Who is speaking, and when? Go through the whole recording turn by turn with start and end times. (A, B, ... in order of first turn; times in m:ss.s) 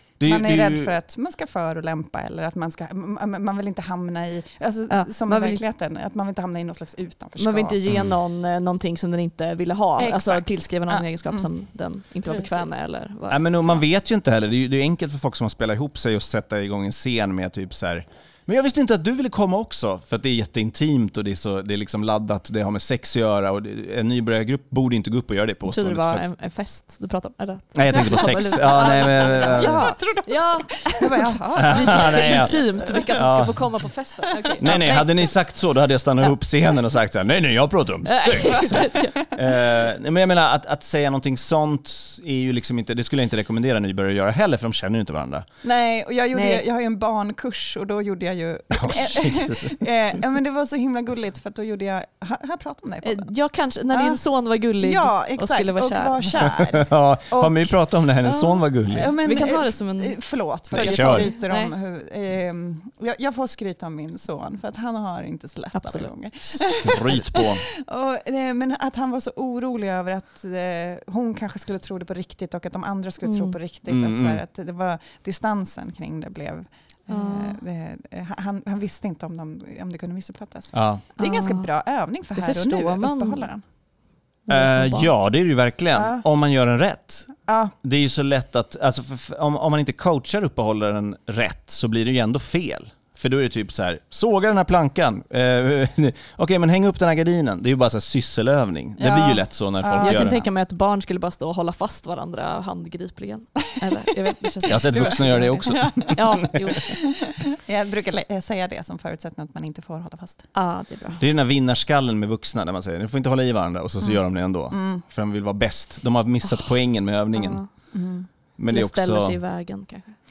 0:00.2-0:00.9 A
0:00.2-0:07.8 B
0:04.9-0:05.6 C
0:07.4-0:13.5 C
0:07.9-0:08.1 A
0:10.0-0:11.5 B
0:12.2-0:12.8 B
0:13.3-0:26.3 A
0:25.7-0:35.4 C
0:27.8-0:29.9 A
0:27.9-0:33.2 B
0:31.6-0:33.7 A
0:34.2-0:34.8 B
0:34.6-0:45.5 A
0:38.1-0:39.6 C
0:38.5-0:39.3 B
0:45.6-0:53.3 B
0:46.3-0:46.6 C
0:48.7-0:49.8 A
0:53.0-0:56.4 C
0:53.9-0:54.2 B
0:54.8-0:57.8 B
0:56.4-0:59.1 A
0:58.2-0:58.7 C
0:58.9-1:23.6 B
0:59.2-1:00.2 C
1:00.7-1:01.3 A
1:00.7-1:01.7 C
1:05.8-1:06.1 C
1:06.5-1:07.6 A
1:13.2-1:13.6 C
1:13.9-1:14.4 A
1:17.1-1:17.6 C
1:20.7-1:21.1 A
1:21.2-1:21.7 C
1:22.4-1:23.5 C
1:24.5-1:25.1 C
1:24.5-1:40.4 A
1:25.9-1:26.2 B
1:27.4-1:27.8 B
1:39.0-1:40.5 B
1:40.0-1:46.9 C
1:44.7-1:46.7 A
1:44.8-1:50.4 B
1:50.6-1:51.2 C
1:51.2-1:57.6 A
1:54.0-1:55.0 B
1:57.3-1:57.7 C
1:57.9-1:58.3 B
1:58.6-1:59.4 A
1:58.7-2:00.2 C